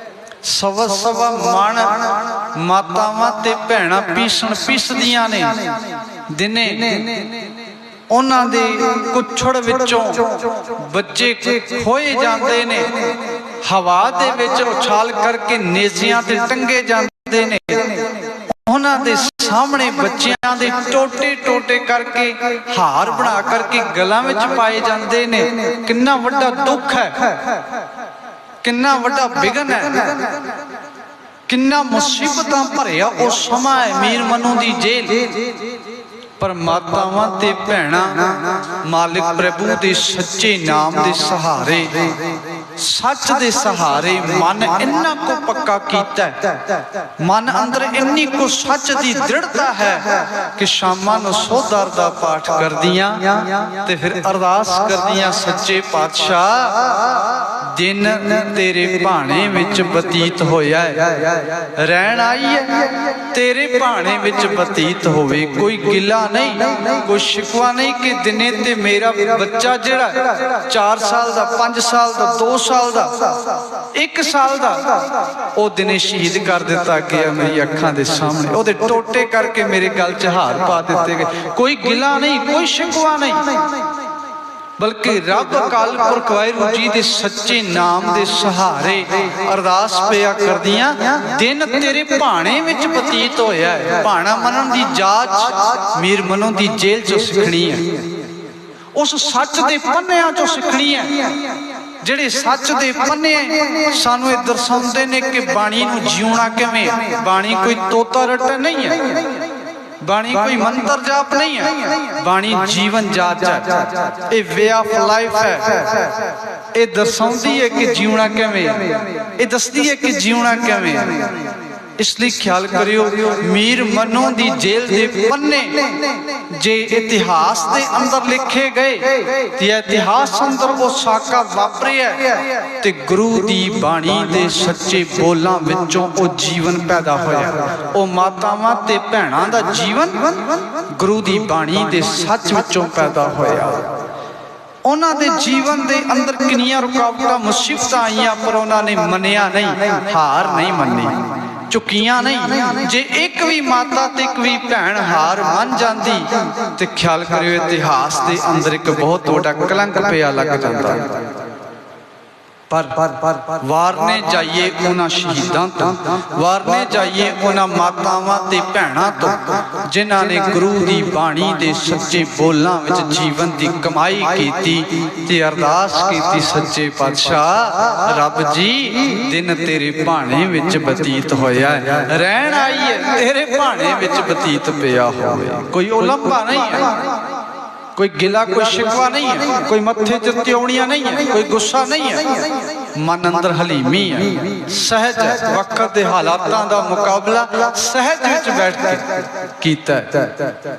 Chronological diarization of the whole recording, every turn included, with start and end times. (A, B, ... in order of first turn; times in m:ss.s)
0:00.4-0:07.4 A
0:08.1-0:27.3 A
0:28.6-0:30.3 A
0:31.5-0:35.5 A
0:36.4-0:42.1 A
0:42.8-0:46.6 A
0:47.2-1:23.9 A
1:24.8-1:38.0 A
1:38.9-1:41.3 A
1:42.0-1:49.4 A
1:50.0-1:56.2 A
1:56.7-2:01.4 A
2:02.0-2:24.0 A
2:24.8-2:41.3 A
2:42.7-3:07.1 A
3:08.0-3:20.6 A